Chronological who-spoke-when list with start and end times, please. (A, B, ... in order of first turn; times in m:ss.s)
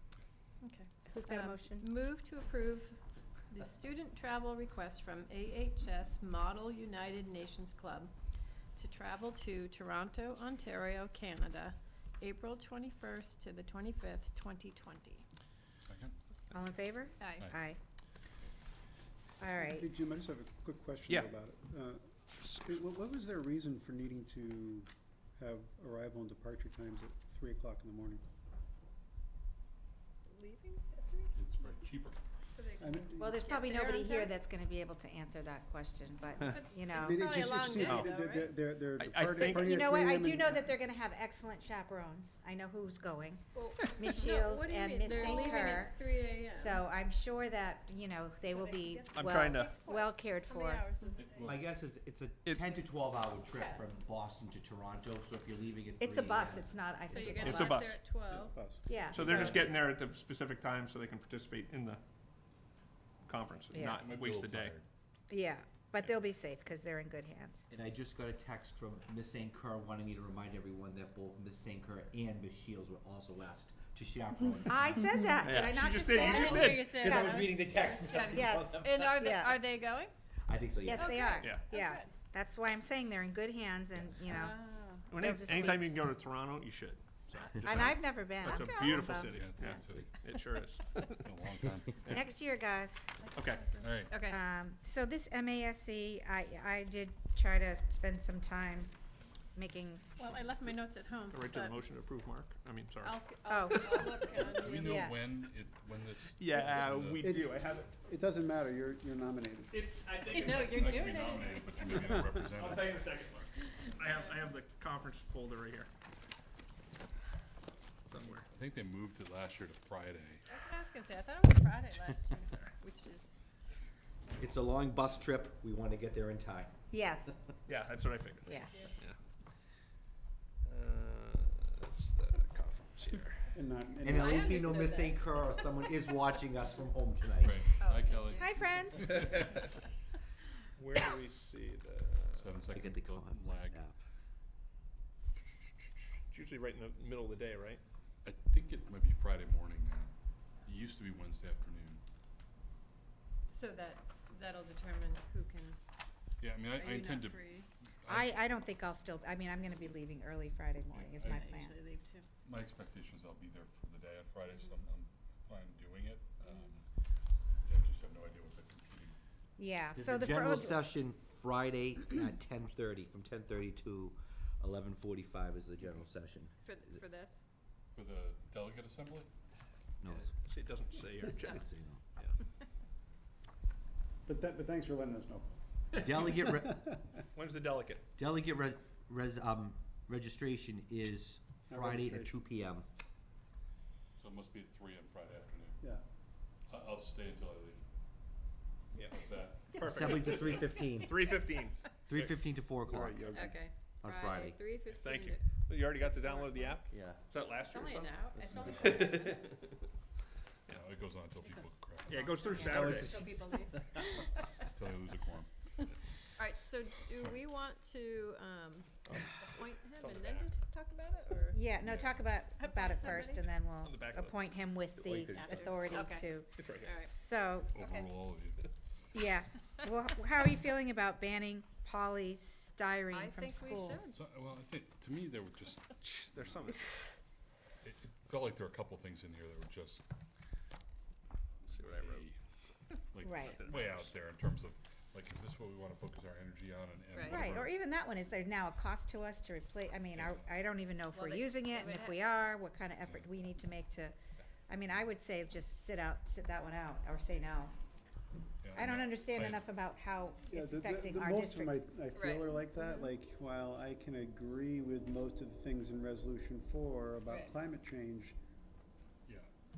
0:00.6-0:03.0 A
0:01.1-0:01.9 B
0:03.5-0:08.1 A
0:08.8-0:15.2 A
0:15.9-0:16.1 C
0:16.5-0:17.8 B
0:17.2-0:17.5 A
0:19.4-0:19.9 B
0:19.5-0:22.0 D
0:21.1-0:21.3 E
0:22.4-0:22.8 E
0:22.6-0:28.2 D
0:30.3-0:31.3 A
0:31.3-0:32.2 C
0:32.5-0:34.3 A
0:32.8-0:33.4 D
0:33.2-0:37.2 B
0:36.4-0:38.6 A
0:36.9-0:40.8 D
0:37.8-0:38.2 E
0:39.0-0:39.7 E
0:39.3-0:50.8 B
0:43.5-0:46.8 A
0:48.5-0:51.5 A
0:49.1-0:49.8 E
0:51.2-0:51.6 C
0:51.4-0:57.8 F
0:53.5-0:53.8 A
0:56.0-0:57.9 B
0:57.1-0:59.5 A
0:57.4-0:58.0 E
0:58.3-0:59.6 D
0:58.9-0:59.6 B
0:59.1-1:02.0 E
1:03.2-1:04.7 E
1:03.7-1:04.0 B
1:03.7-1:04.8 C
1:05.3-1:07.6 B
1:07.7-1:15.1 F
1:14.7-1:17.5 B
1:15.4-1:16.9 E
1:16.1-1:20.1 A
1:16.2-1:19.2 F
1:18.1-1:19.6 B
1:20.5-1:21.3 F
1:20.8-1:24.6 B
1:20.9-1:22.1 A
1:24.2-1:25.2 A
1:25.1-1:31.2 E
1:25.1-1:25.9 B
1:27.6-1:29.8 B
1:28.4-1:30.3 C
1:31.0-1:32.2 C
1:32.0-1:33.1 B
1:33.2-1:34.4 A
1:33.3-1:33.7 E
1:33.7-1:34.2 C
1:34.2-1:38.9 B
1:39.6-1:40.2 B
1:40.2-1:41.8 A
1:41.3-1:43.2 E
1:43.0-1:45.0 A
1:43.5-1:44.0 B
1:43.7-1:44.4 E
1:44.4-1:47.4 C
1:44.7-1:45.2 B
1:46.4-1:48.0 E
1:46.7-1:49.7 D
1:49.7-1:50.9 E
1:50.3-1:52.1 A
1:50.4-1:53.3 C
1:52.0-1:52.4 D
1:52.5-1:55.9 E
1:54.0-1:54.4 A
1:58.1-1:58.4 E
1:58.2-2:00.4 C
2:00.5-2:03.4 A
2:04.4-2:06.7 F
2:06.9-2:07.4 B
2:07.7-2:09.2 E
2:08.4-2:08.8 B
2:10.6-2:13.6 E
2:13.1-2:14.8 D
2:14.0-2:17.7 F
2:14.0-2:15.7 A
2:17.4-2:19.3 C
2:17.8-2:18.5 A
2:18.4-2:19.4 B
2:19.1-2:19.4 E
2:20.8-2:22.6 E
2:22.4-2:23.8 C
2:22.7-2:23.9 F
2:25.8-2:27.8 E
2:28.2-2:30.1 C
2:30.6-2:32.0 C
2:33.5-2:35.8 A
2:36.4-2:38.3 C
2:36.7-2:37.7 A
2:38.1-2:41.7 B
2:41.0-2:41.5 C
2:41.2-2:42.2 A
2:42.4-2:46.8 C
2:47.6-2:49.1 C
2:49.6-2:50.8 B
2:50.0-2:56.6 F
2:56.6-2:57.4 A
2:57.9-2:59.3 C
3:00.0-3:00.3 F
3:00.2-3:01.6 E
3:01.4-3:02.0 F
3:04.2-3:07.2 D
3:06.0-3:06.8 F
3:07.3-3:08.0 E
3:08.2-3:12.9 F
3:11.7-3:12.4 D
3:14.2-3:15.8 C
3:16.7-3:17.8 C
3:18.9-3:22.3 E
3:19.1-3:20.8 C
3:19.8-3:21.4 F
3:22.1-3:24.6 F
3:22.9-3:23.5 D
3:23.3-3:26.8 A
3:24.9-3:28.3 E
3:26.9-3:27.2 F
3:27.6-3:29.6 A
3:28.4-3:29.2 C
3:30.7-3:33.1 C
3:32.1-3:33.2 E
3:32.3-3:34.2 A
3:32.6-3:33.5 F
3:34.7-3:35.5 C
3:36.4-3:41.6 A
3:39.0-3:40.5 E
3:41.5-3:47.7 B
3:41.8-3:42.2 C
3:42.6-3:43.5 A
3:43.8-3:44.4 E
3:45.0-3:46.0 F
3:45.3-3:47.1 A
3:46.5-3:46.9 E
3:47.7-3:48.6 C
3:47.7-3:48.1 A
3:49.1-3:54.0 B
3:53.1-3:54.2 A
3:54.1-3:56.7 C
3:56.0-3:57.1 E
3:57.8-4:00.0 C
4:01.6-4:02.3 C
4:01.7-4:02.3 E
4:03.1-4:07.7 C
4:03.2-4:03.6 B
4:03.5-4:04.1 E
4:07.1-4:07.5 A
4:07.2-4:14.1 B
4:10.2-4:10.4 C
4:11.1-4:12.3 A
4:14.7-4:17.7 B
4:18.6-4:19.6 C
4:18.7-4:21.8 B
4:20.5-4:28.4 D
4:22.1-4:23.0 A